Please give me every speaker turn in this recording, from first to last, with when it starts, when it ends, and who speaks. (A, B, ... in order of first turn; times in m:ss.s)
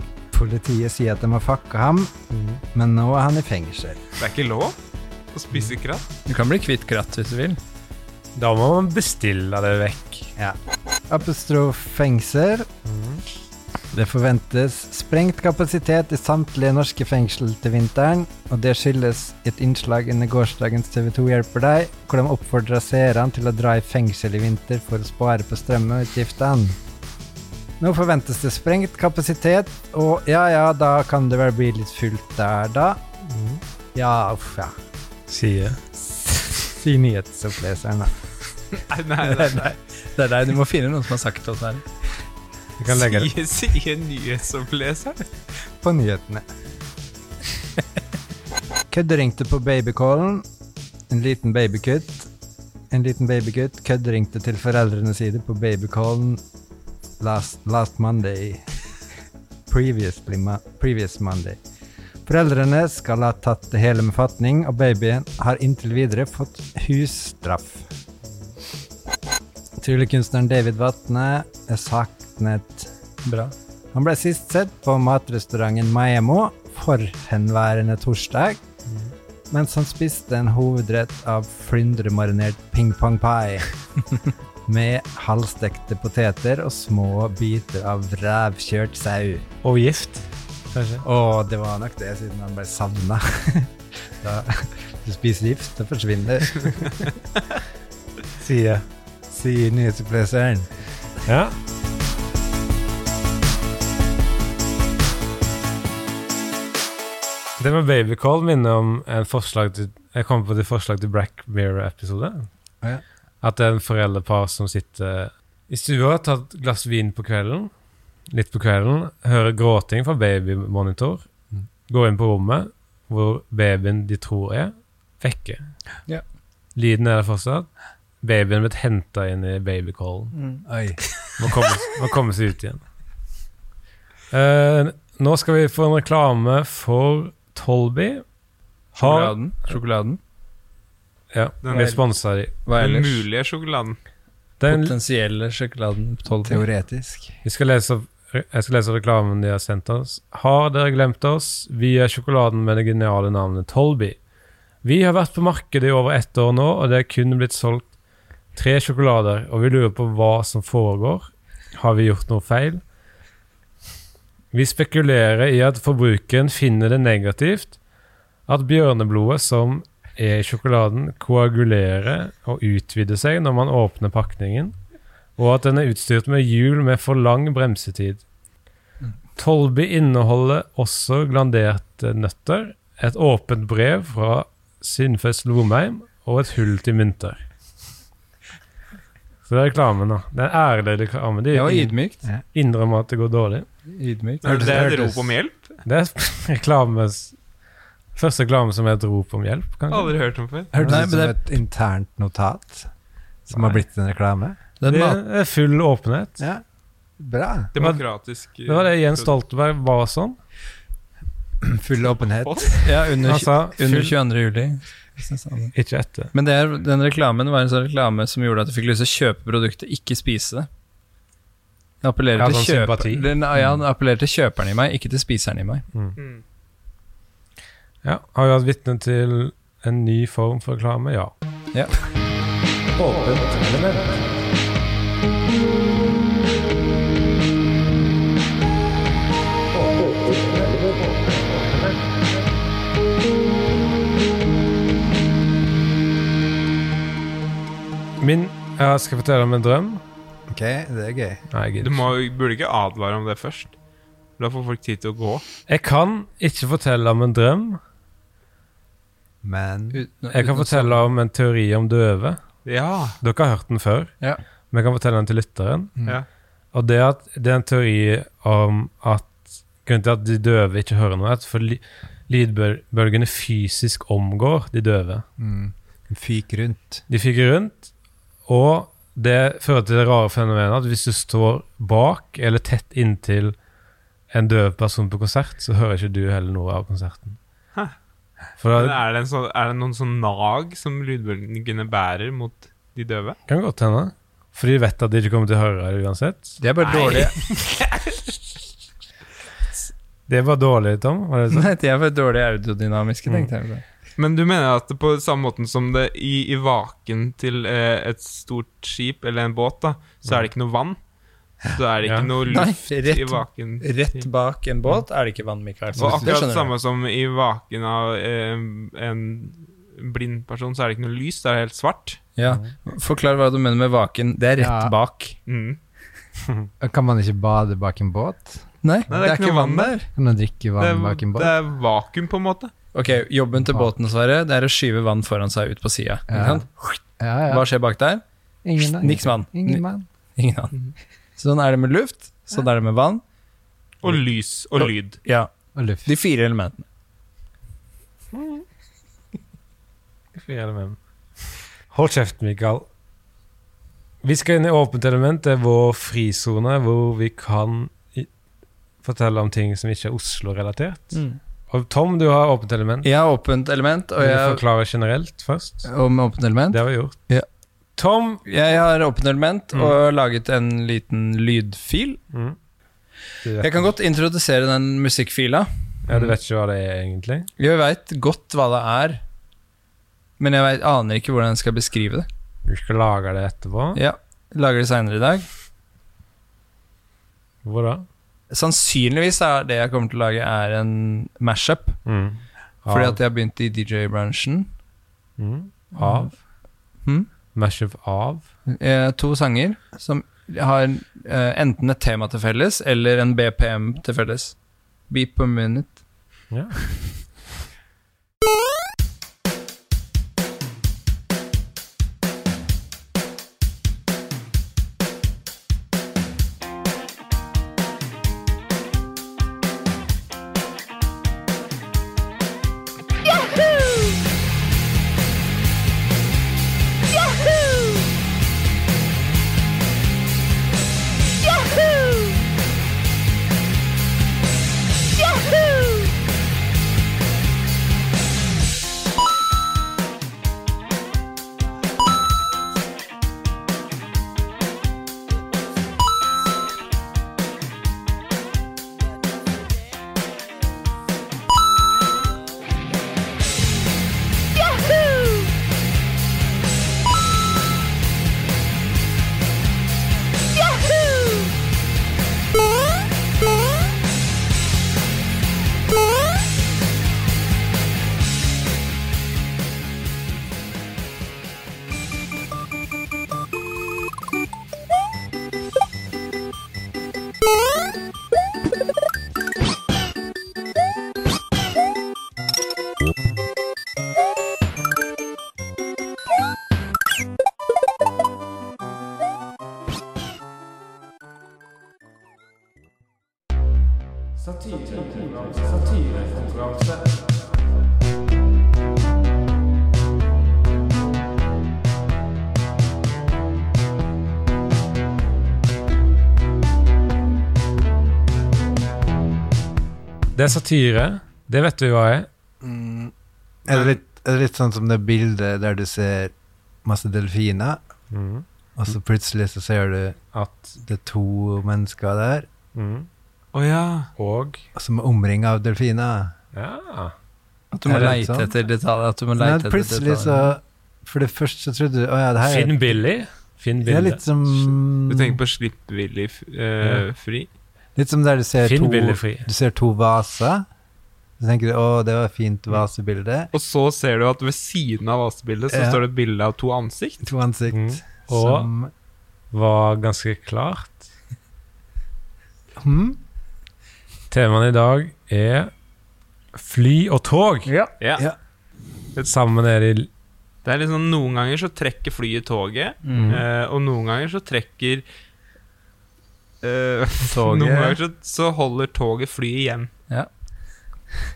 0:00.3-0:02.1 A
0:02.3-0:02.6 B
0:02.7-0:04.0 A
0:04.2-0:04.8 C
0:05.3-0:06.0 C
0:06.3-0:07.6 D
0:08.4-0:10.3 B
0:11.1-0:12.7 A
0:12.9-0:13.2 B
0:13.9-0:26.8 A
0:27.8-0:33.0 A
0:33.3-0:33.6 B
0:34.0-0:34.8 A
0:35.3-0:35.8 B
0:36.0-0:38.1 A
0:38.9-0:39.7 C
0:39.2-0:41.8 D
0:42.8-0:43.3 B
0:42.9-0:45.2 C
0:45.8-0:46.4 A
0:48.9-0:50.4 A
0:51.1-0:52.3 A
0:52.9-0:56.4 A
0:57.2-0:58.6 A
0:59.7-1:01.6 A
1:02.3-1:07.9 A
1:09.8-1:12.9 A
1:13.2-1:13.5 D
1:13.9-1:18.6 A
1:19.5-1:23.7 A
1:24.7-1:29.5 A
1:29.6-1:31.0 B
1:31.0-1:37.0 A
1:38.4-1:38.9 B
1:39.3-1:40.7 A
1:41.3-1:41.6 B
1:47.6-1:52.5 B
1:53.4-1:57.7 B
1:58.3-2:01.2 B
2:01.9-2:05.6 B
2:06.8-2:07.7 B
2:08.2-2:10.3 B
2:10.3-2:10.6 D
2:10.7-2:11.0 A
2:11.4-2:12.8 B
2:14.3-2:18.2 B
2:18.9-2:20.2 D
2:19.0-2:19.8 B
2:21.3-2:22.5 B
2:21.6-2:22.0 C
2:21.7-2:22.0 D
2:22.6-2:23.3 D
2:22.8-2:24.0 C
2:24.6-2:25.0 B
2:24.7-2:26.7 D
2:26.4-2:27.4 A
2:27.4-2:34.2 B
2:34.8-2:37.9 B
2:38.6-2:42.8 B
2:44.5-2:47.8 B
2:48.5-2:54.8 B
2:55.4-2:58.2 B
2:59.4-3:07.4 B
3:09.5-3:11.9 B
3:11.5-3:12.2 D
3:12.5-3:13.7 B
3:13.9-3:15.2 D
3:14.4-3:15.8 C
3:14.5-3:14.9 A
3:15.8-3:17.4 B
3:18.2-3:20.1 B
3:19.9-3:20.7 C
3:20.7-3:22.9 A
3:20.8-3:21.4 D
3:23.5-3:24.6 A
3:24.8-3:25.2 D
3:24.9-3:26.4 B
3:27.2-3:27.7 A
3:27.7-3:29.4 C
3:28.7-3:30.4 B
3:31.6-3:32.9 A
3:32.4-3:32.7 C
3:32.8-3:35.7 D
3:33.2-3:34.2 B
3:35.7-3:36.3 B
3:36.3-3:40.7 D
3:42.0-3:45.8 D
3:42.4-3:43.3 B
3:46.2-3:46.4 C
3:48.0-3:51.3 B
3:53.0-3:54.2 B
4:08.2-4:10.0 B
4:10.5-4:11.4 A
4:11.5-4:12.0 B
4:11.8-4:13.7 C
4:14.4-4:15.4 C
4:15.7-4:17.8 B
4:19.4-4:20.0 A
4:19.9-4:21.0 D
4:20.3-4:22.4 B
4:22.6-4:23.2 C
4:23.2-4:24.1 B
4:24.7-4:26.0 B
4:26.7-4:35.2 B
4:35.4-4:37.0 A
4:37.1-4:37.9 B
4:38.5-4:43.6 B
4:44.3-4:47.4 B
4:48.6-4:49.0 B
4:48.7-4:53.4 C
4:53.5-4:56.6 B
4:56.6-4:57.4 D
4:56.8-4:57.8 C
5:00.3-5:01.7 B
5:01.5-5:03.8 D
5:04.2-5:11.0 C
5:11.6-5:14.3 C
5:12.0-5:12.3 B
5:12.5-5:16.7 D
5:16.0-5:22.2 C
5:16.0-5:16.3 A
5:22.4-5:25.4 D
5:24.6-5:24.9 A
5:25.5-5:25.8 C
5:26.8-5:28.6 A
5:28.8-5:30.1 D
5:29.1-5:30.0 C
5:30.2-5:31.5 A
5:30.8-5:32.7 C
5:32.9-5:38.2 D
5:36.3-5:36.6 A
5:37.2-5:37.7 A
5:38.6-5:40.1 A
5:38.8-5:39.8 D
5:40.4-5:40.7 D
5:41.4-5:43.2 D
5:44.0-5:45.2 C
5:44.8-5:45.5 D
5:45.8-5:46.1 A
5:46.0-5:46.9 D
5:48.3-5:48.6 B
5:50.4-5:51.0 B
5:51.9-5:52.9 B
5:54.2-5:58.3 B
5:59.0-6:03.1 B
6:01.1-6:01.4 D
6:03.0-6:04.6 D
6:04.2-6:05.9 B
6:05.8-6:07.5 D
6:06.7-6:07.2 B
6:08.0-6:08.4 B
6:08.4-6:12.2 D
6:12.3-6:12.6 B
6:13.4-6:13.9 B
6:13.6-6:16.3 D
6:16.1-6:17.5 B
6:17.6-6:19.2 D
6:20.4-6:22.3 D
6:22.7-6:24.0 B
6:24.0-6:25.5 D
6:27.6-6:28.1 B
6:28.5-6:32.0 D
6:32.1-6:33.2 B
6:32.9-6:34.7 D
6:35.4-6:36.4 B
6:35.9-6:36.3 D
6:37.5-6:38.5 B
6:38.7-6:44.6 D
6:45.1-6:46.0 D
6:46.5-6:47.0 B
8:14.4-8:17.4 B
8:30.4-8:32.3 B
8:32.6-8:33.1 A
8:33.7-8:36.3 A
8:33.7-8:34.0 C
8:36.8-8:37.8 A
8:38.1-8:38.4 B
8:38.8-8:40.2 A
8:40.3-8:40.8 B
8:40.8-8:42.5 A
8:42.8-8:43.1 B
8:43.5-8:44.1 C
8:44.2-8:44.6 B
8:44.8-8:46.3 A
8:46.5-8:47.2 B
8:47.7-8:50.6 D
8:47.9-8:48.5 A
8:47.9-8:48.2 B
8:49.4-8:53.0 A
8:52.4-8:54.7 B
8:53.8-8:55.4 A
8:55.1-8:57.5 C
8:58.0-9:00.6 A
8:58.6-8:59.5 B
9:01.4-9:03.5 A
9:03.5-9:07.2 C
9:05.7-9:06.0 A
9:07.2-9:08.9 A
9:07.7-9:08.7 B
9:09.5-9:11.0 B
9:12.8-9:13.2 A
9:14.3-9:15.7 B
9:16.6-9:17.7 B
9:17.7-9:17.9 D
9:18.0-9:18.3 C
9:19.2-9:20.1 B
9:20.6-9:25.0 C
9:23.0-9:23.4 D
9:26.6-9:29.9 C
9:27.3-9:28.0 D